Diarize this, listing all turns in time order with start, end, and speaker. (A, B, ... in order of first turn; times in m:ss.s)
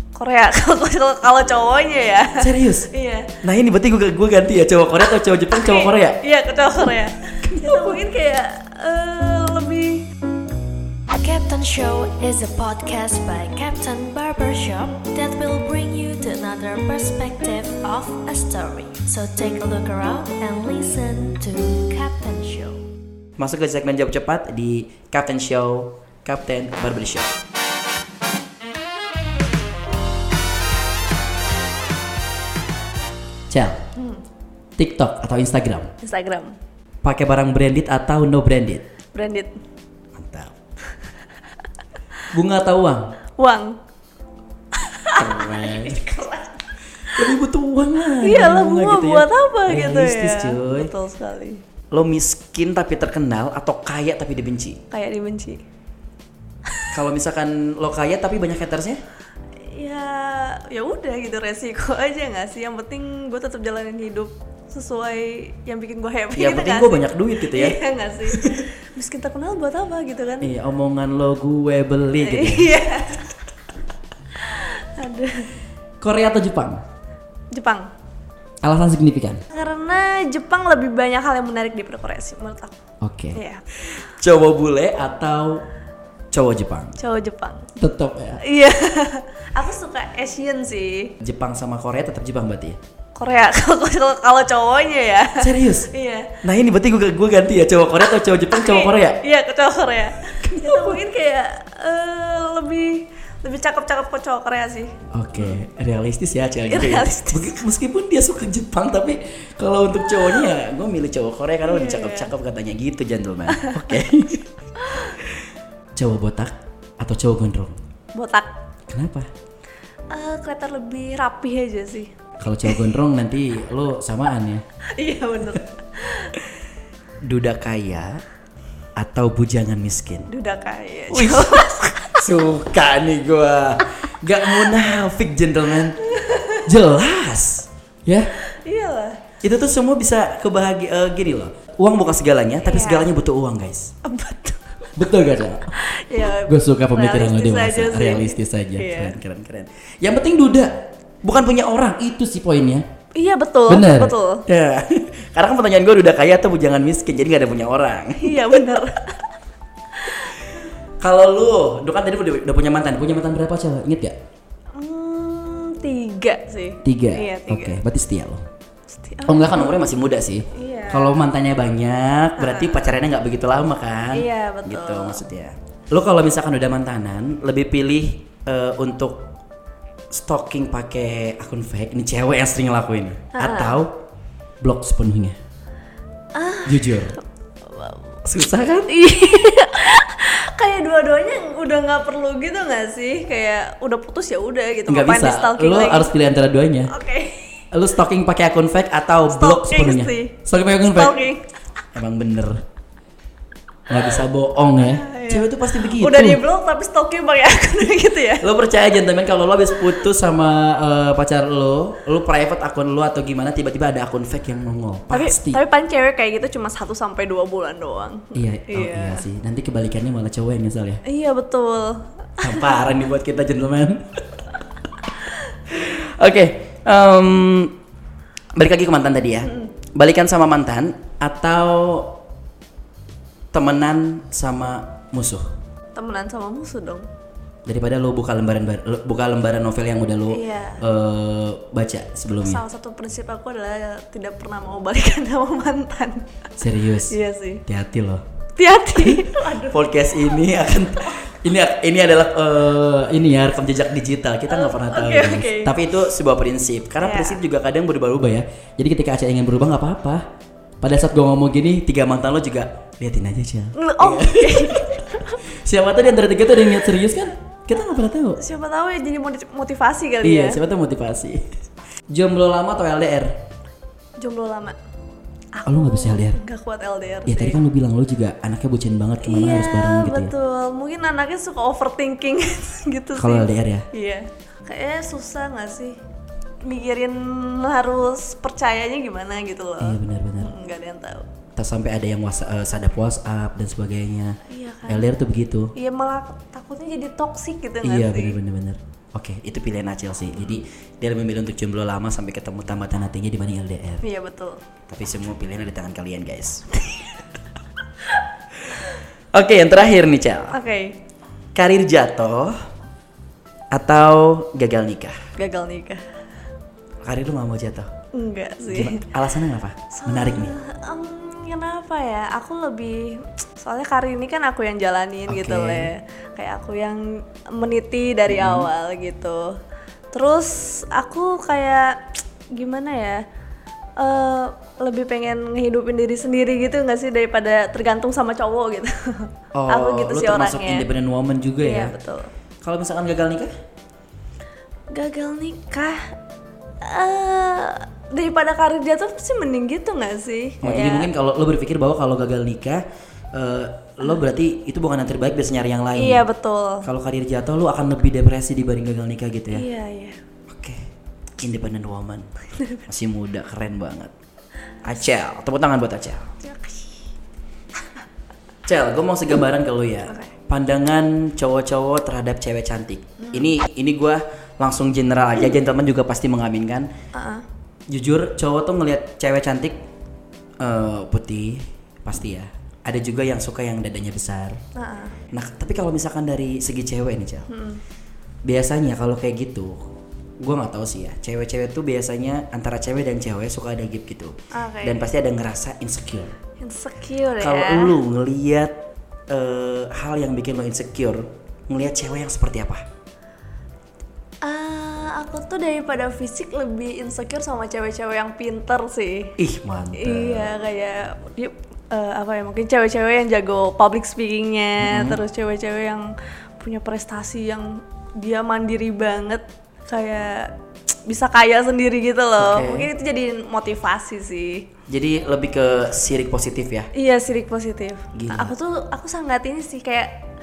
0:00.2-0:03.3 A
0:02.4-0:02.9 B
0:03.4-0:06.2 B
0:05.5-0:10.1 A
0:07.4-0:08.0 B
0:11.2-0:22.8 C
0:23.4-0:27.3 B
0:33.5-0:33.8 B
0:34.0-0:34.2 A
0:34.8-0:35.9 B
0:36.0-0:36.6 A
0:37.0-0:38.8 B
0:39.1-0:39.5 A
0:40.2-0:40.6 B
0:42.3-0:43.2 B
0:43.4-0:43.8 A
0:44.8-0:46.6 A
0:45.1-0:46.2 B
0:47.1-0:50.9 B
0:48.2-0:51.6 A
0:51.9-0:54.8 B
0:54.9-0:55.6 A
0:56.9-0:59.0 B
0:59.7-1:10.5 A
1:06.3-1:08.6 B
1:10.4-1:12.8 B
1:12.2-1:13.3 A
1:14.4-1:15.5 A
1:16.0-1:16.8 B
1:17.5-1:17.9 A
1:18.6-1:19.4 B
1:19.5-1:22.8 A
1:23.0-1:23.4 B
1:23.4-1:23.6 A
1:23.9-1:25.6 B
1:26.3-1:27.0 B
1:27.0-1:27.7 A
1:27.8-1:28.4 B
1:28.4-1:31.1 A
1:31.2-1:32.8 B
1:33.2-1:36.4 A
1:35.4-1:35.9 B
1:36.4-1:39.2 B
1:38.5-1:45.6 A
1:40.4-1:41.0 B
1:45.1-1:54.5 B
1:46.7-1:47.6 A
1:51.6-1:52.3 A
1:53.5-1:53.8 A
1:54.8-1:55.2 A
1:56.0-1:57.8 B
1:58.2-1:58.5 A
1:58.9-1:59.3 B
2:00.1-2:02.1 A
2:02.4-2:04.6 B
2:05.0-2:06.3 A
2:07.2-2:08.1 B
2:09.0-2:10.3 B
2:10.3-2:12.3 A
2:11.1-2:16.0 B
2:16.1-2:16.6 A
2:16.7-2:18.3 B
2:18.5-2:19.2 A
2:19.4-2:23.9 B
2:22.6-2:23.1 A
2:24.0-2:24.7 A
2:25.0-2:25.7 B
2:25.7-2:29.2 A
2:26.3-2:32.8 B
2:33.2-2:34.4 A
2:33.7-2:38.8 B
2:38.2-2:39.2 A
2:41.0-2:44.2 B
2:44.8-2:47.8 A
2:46.8-2:48.4 B
2:48.9-2:49.9 A
2:49.3-2:59.3 B
2:50.5-2:51.2 A
2:52.4-2:52.9 A
2:54.1-2:55.2 A
3:00.1-3:04.0 B
3:03.4-3:03.8 A
3:04.6-3:05.4 B
3:06.3-3:07.0 A
3:06.6-3:07.2 B
3:08.2-3:08.9 B
3:08.9-3:16.1 A
3:14.9-3:16.9 B
3:16.9-3:17.4 A
3:17.7-3:21.2 B
3:19.3-3:21.4 A
3:22.0-3:22.6 B
3:23.9-3:26.4 B
3:24.8-3:28.5 A
3:28.4-3:35.6 B
3:35.1-3:39.3 A
3:38.3-3:41.0 B
3:41.1-3:42.9 A
3:42.4-3:44.0 B
3:45.7-3:47.8 B
3:48.6-3:52.2 B
3:49.4-3:49.7 A
3:53.5-3:55.4 B
3:56.0-3:57.1 A
3:57.7-4:02.6 B
4:00.3-4:00.8 A
4:02.4-4:06.3 A
4:06.6-4:08.2 B
4:07.1-4:07.6 A
4:08.6-4:09.9 A
4:09.0-4:20.2 B
4:14.5-4:15.7 A
4:17.0-4:17.4 A
4:20.8-4:28.4 B
4:23.8-4:25.4 A
4:28.4-4:30.6 A
4:30.2-4:31.4 B
4:32.1-4:33.4 B
4:34.2-4:34.8 A
4:35.5-4:37.6 A
4:35.7-4:36.4 B
4:37.3-4:40.3 B
4:39.2-4:46.0 A
4:43.2-4:43.8 B
4:46.6-4:51.3 A
4:49.8-4:50.5 B
4:51.6-4:55.7 B
4:54.5-4:55.1 A
4:55.8-4:58.4 A
4:57.8-5:04.0 B
5:04.0-5:04.6 A
5:04.9-5:06.8 B
5:09.3-5:10.6 B
5:10.5-5:11.0 A
5:11.6-5:12.6 B
5:13.7-5:15.2 B
5:15.4-5:16.0 A
5:17.0-5:17.9 B
5:18.1-5:19.0 A
5:18.7-5:20.6 B
5:19.9-5:29.6 A
5:25.3-5:25.9 B
5:28.3-5:28.7 B
5:30.1-5:33.2 A
5:34.0-5:40.9 A
5:39.5-5:41.9 B
5:41.6-5:42.3 A
5:42.6-5:43.5 B
5:44.9-5:46.1 A
5:46.8-5:51.1 A
5:50.6-5:52.8 B
5:53.3-5:56.2 B
5:56.0-5:56.9 A
5:56.8-5:59.7 B
5:59.5-6:00.2 A
6:00.5-6:00.8 B
6:01.4-6:02.3 B
6:02.9-6:04.1 B
6:04.8-6:06.3 B
6:06.4-6:07.0 A
6:08.7-6:16.9 B
6:13.2-6:13.5 A
6:17.2-6:17.4 A
6:17.9-6:19.8 B
6:20.6-6:24.6 B
6:24.8-6:25.2 A
6:25.3-6:27.5 B
6:27.5-6:27.8 A
6:28.5-6:29.8 B
6:30.4-6:36.3 B
6:34.5-6:35.1 A
6:36.6-6:38.0 A
6:37.4-6:38.8 B
6:39.3-6:42.8 B
6:44.4-6:49.4 A
6:49.4-6:50.6 B
6:49.9-7:00.5 A
6:54.8-6:55.2 B
7:01.1-7:04.7 A
7:02.4-7:02.9 B
7:04.9-7:06.9 B
7:06.9-7:10.2 A
7:08.1-7:08.5 B